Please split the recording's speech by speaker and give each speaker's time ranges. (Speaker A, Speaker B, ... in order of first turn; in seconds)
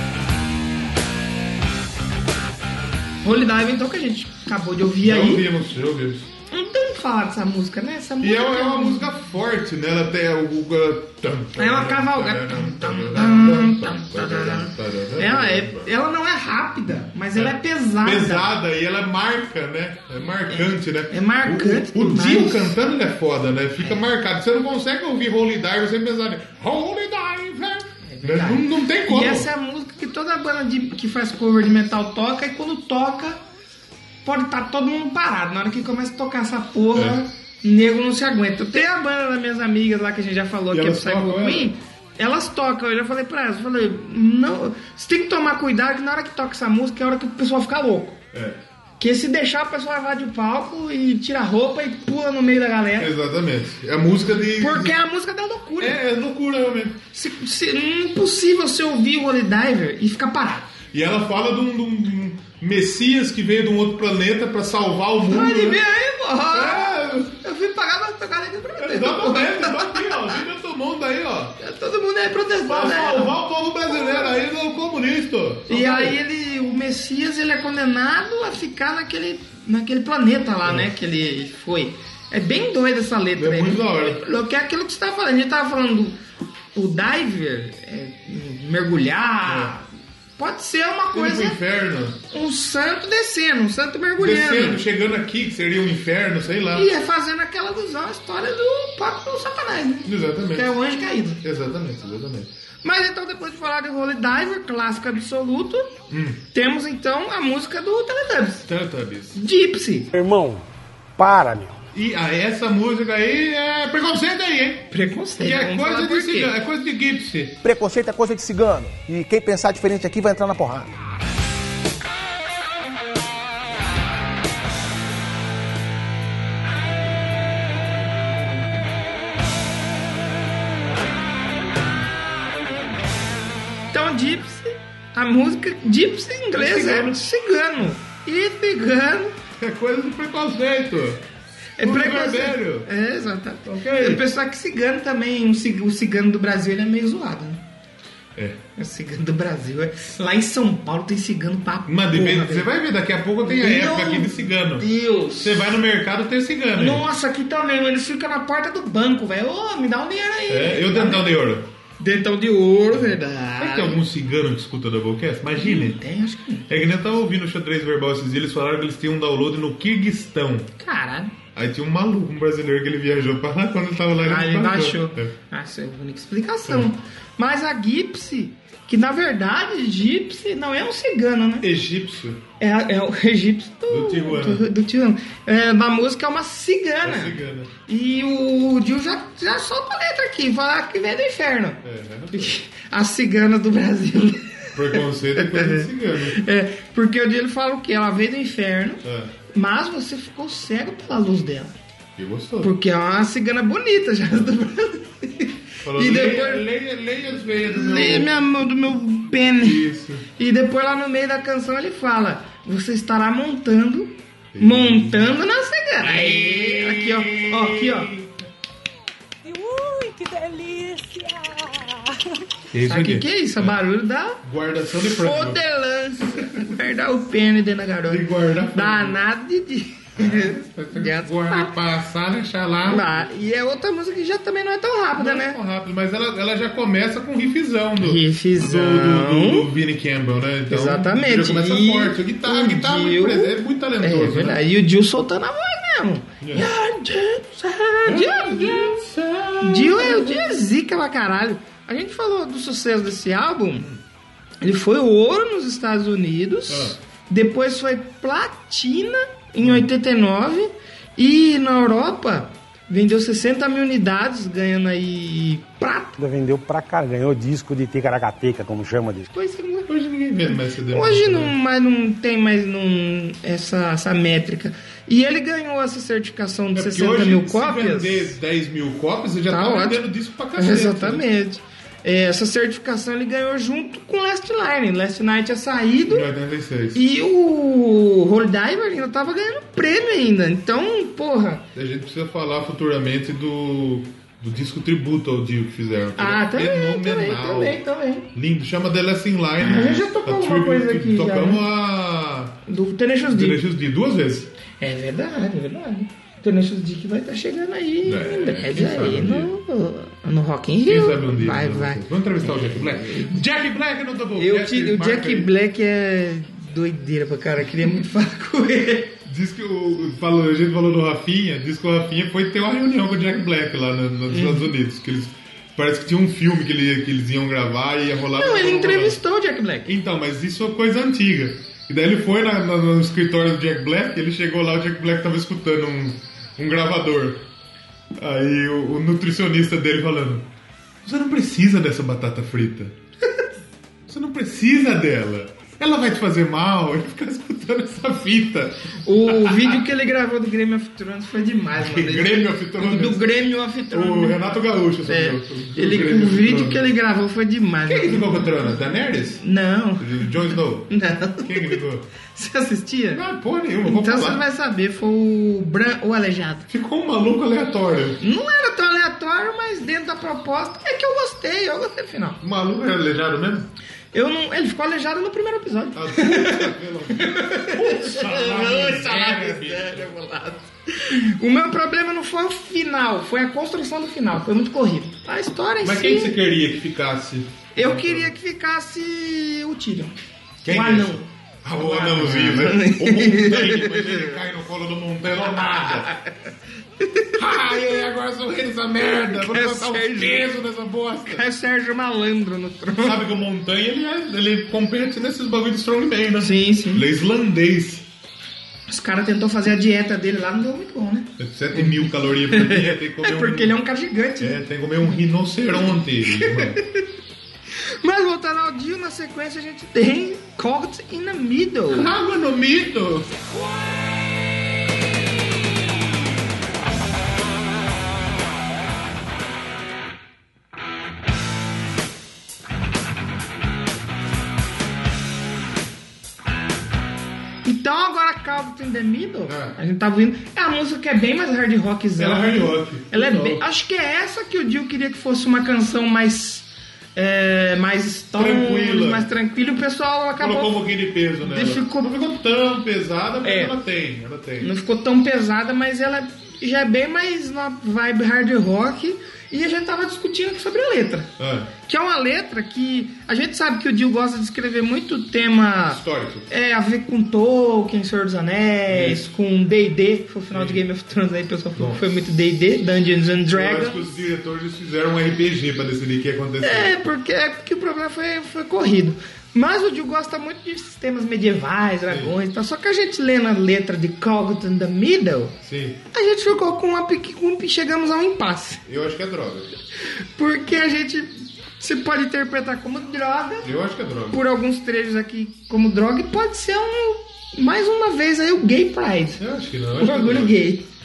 Speaker A: 3.2-5.5, 6.5-9.1, 11.6-18.6, 20.4-22.8, 28.0-33.4, 34.2-48.2, 49.0-53.1, 54.6-56.0, 57.1-60.7, 65.3-70.4, 71.6-73.4, 73.9-74.4, 75.7-86.2, 86.8-89.9, 90.4-91.6, 92.3-94.8, 96.8-101.4, 102.8-105.9, 106.5-108.7, 109.3-110.1, 114.9-116.5, 133.9-139.4, 141.8-147.6, 148.8-152.7, 153.4-155.8, 156.8-161.4, 162.0-164.0, 165.6-166.7, 170.8-171.4, 174.2-181.7, 182.6-201.8, 202.6-206.7, 207.7-209.8, 210.4-218.1, 222.8-224.4, 225.0-231.7, 232.9-235.6, 238.0-239.7, 240.7-249.0, 249.6-253.9, 254.6-266.2, 269.3-269.9, 270.5-278.3, 279.5-280.1, 280.6-286.3, 286.9-291.7, 296.2-298.3, 299.6-301.6, 302.7-303.6, 304.8-313.4, 314.4-319.2, 324.3-324.7, 328.3-329.9, 349.0-354.4, 355.1-358.7, 359.4-361.8, 362.3-363.2, 363.8-366.7, 368.2-372.4, 374.1-386.4, 387.8-394.3, 395.9-396.3, 397.0-397.3, 399.3-400.6, 401.3-403.2, 406.4-407.1, 408.9-415.1, 416.3-417.0, 418.0-422.1, 437.6-450.8, 451.4-452.1, 453.4-453.8, 454.6-461.3, 461.9-474.2, 476.6-485.6, 486.1-488.8, 490.2-493.7, 494.3-499.4, 500.0-500.9
Speaker B: 5.0-6.3, 8.2-15.9, 17.3-29.5, 36.9-37.2, 40.7-41.8, 48.3-48.6, 53.0-55.0, 55.8-57.0, 60.9-65.8, 66.5-67.3, 68.8-71.6, 72.7-76.2, 80.6-80.9, 83.4-84.2, 89.5-89.7, 91.1-92.2, 94.2-96.9, 100.0-100.7, 101.4-102.5, 106.1-106.4, 108.7-109.4, 111.9-117.6, 136.5-137.2, 139.6-141.2, 141.8-142.9, 143.7-144.2, 148.3-148.6, 151.9-154.9, 155.4-157.1, 160.5-161.7, 162.9-166.0, 166.7-170.7, 171.5-175.3, 181.6-182.4, 183.9-184.7, 187.0-187.7, 191.8-192.6, 194.7-196.4, 199.0-199.3, 202.2-202.7, 205.8-208.4, 209.5-210.3, 214.5-215.4, 216.0-218.3, 222.7-223.8, 224.4-225.6, 226.3-226.7, 228.1-229.2, 230.2-233.2, 235.2-244.6, 246.4-246.7, 248.1-250.6, 253.7-254.0, 256.7-257.0, 259.6-259.9, 269.9-271.6, 276.7-281.3, 286.1-287.1, 291.8-297.8, 298.3-302.6, 303.2-304.5, 308.0-309.5, 310.9-315.5, 319.2-329.2, 329.9-337.5, 338.2-340.5, 341.0-342.9, 344.1-349.8, 351.8-353.3, 353.9-356.9, 357.8-359.4, 360.0-362.1, 363.1-364.4, 366.7-368.2, 372.4-373.7, 375.9-380.2, 385.8-388.3, 390.6-396.1, 397.4-401.5, 403.0-408.1, 411.4-413.8, 414.4-416.8, 421.9-423.3, 439.5-439.8, 442.2-443.6, 448.4-449.3, 450.4-454.7, 461.4-461.7, 465.8-466.5, 468.9-469.2, 470.5-470.8, 471.8-472.1, 473.5-476.9, 482.1-482.3, 485.6-486.0, 488.9-489.8, 493.6-494.4, 499.4-500.6
Speaker C: 110.1-111.8, 266.2-269.3
Speaker D: 117.6-120.9
Speaker E: 219.4-222.4, 423.4-426.3